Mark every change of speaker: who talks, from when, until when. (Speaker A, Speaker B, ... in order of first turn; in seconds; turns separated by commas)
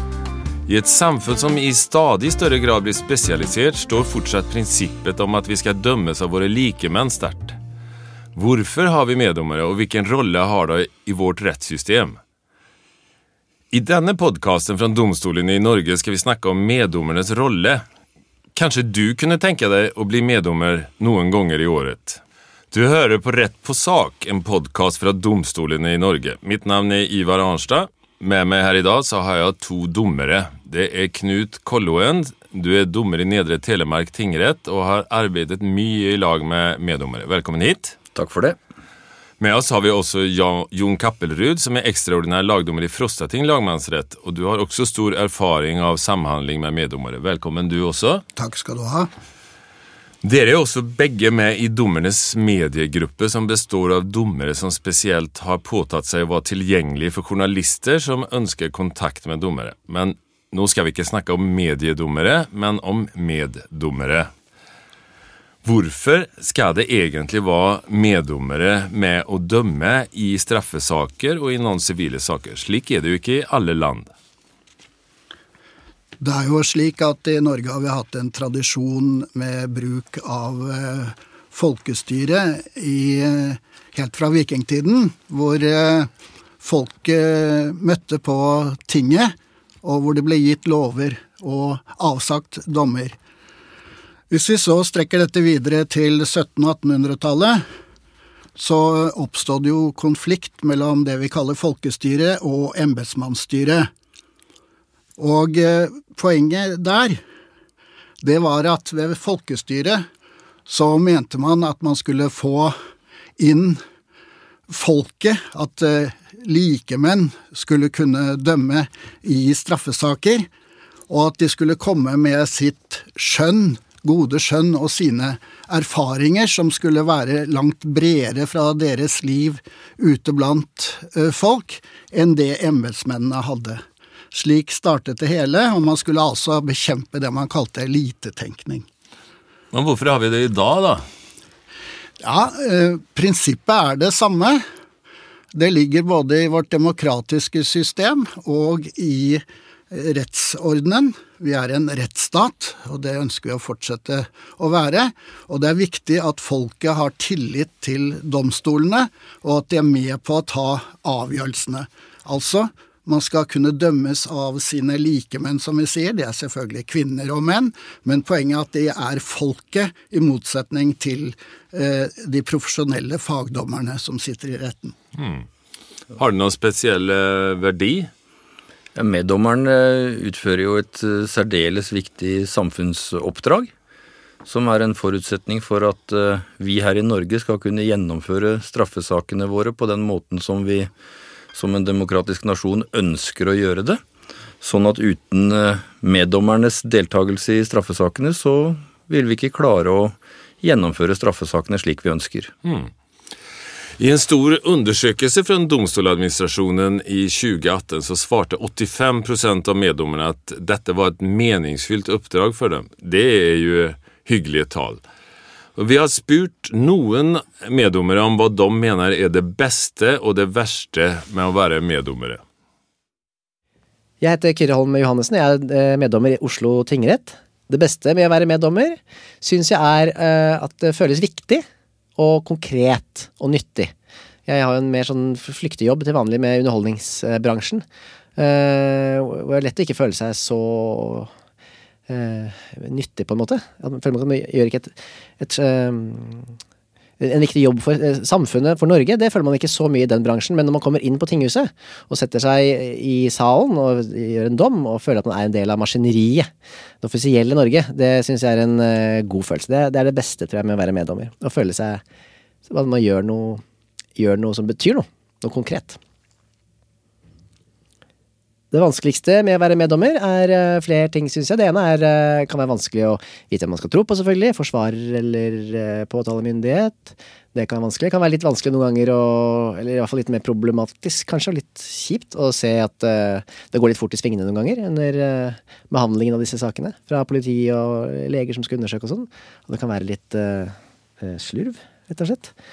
Speaker A: 0.7-7.6, Speaker A: 8.3-12.2, Speaker A: 13.7-17.9, Speaker A: 18.6-22.2, Speaker A: 22.7-38.0, Speaker B: 38.1-38.6, Speaker A: 39.4-48.2, Speaker C: 48.4-49.1, Speaker A: 50.2-64.3, Speaker A: 65.6-74.1, Speaker C: 76.2-93.2, Speaker C: 94.3-97.6, Speaker C: 98.6-103.9, Speaker C: 105.2-107.2, Speaker C: 108.2-110.0, Speaker C: 110.7-112.8, Speaker C: 113.4-113.8, Speaker C: 114.7-120.5, Speaker C: 121.1-138.9, Speaker A: 139.7-141.1, Speaker C: 142.2-144.6, Speaker C: 145.5-175.0, Speaker A: 175.2-175.5, Speaker A: 176.2-178.1, Speaker B: 179.0-183.7, Speaker B: 184.4-190.9, Speaker B: 191.5-194.0, Speaker B: 194.6-202.5, Speaker A: 202.6-202.9, Speaker A: 204.0-215.0, Speaker A: 215.8-222.4, Speaker D: 224.2-231.7, Speaker D: 232.2-233.9, Speaker D: 234.5-237.9, Speaker D: 238.4-241.3, Speaker D: 242.1-246.5, Speaker D: 247.2-256.5, Speaker D: 257.0-262.0, Speaker D: 262.7-263.6, Speaker D: 264.2-266.0, Speaker D: 268.7-292.5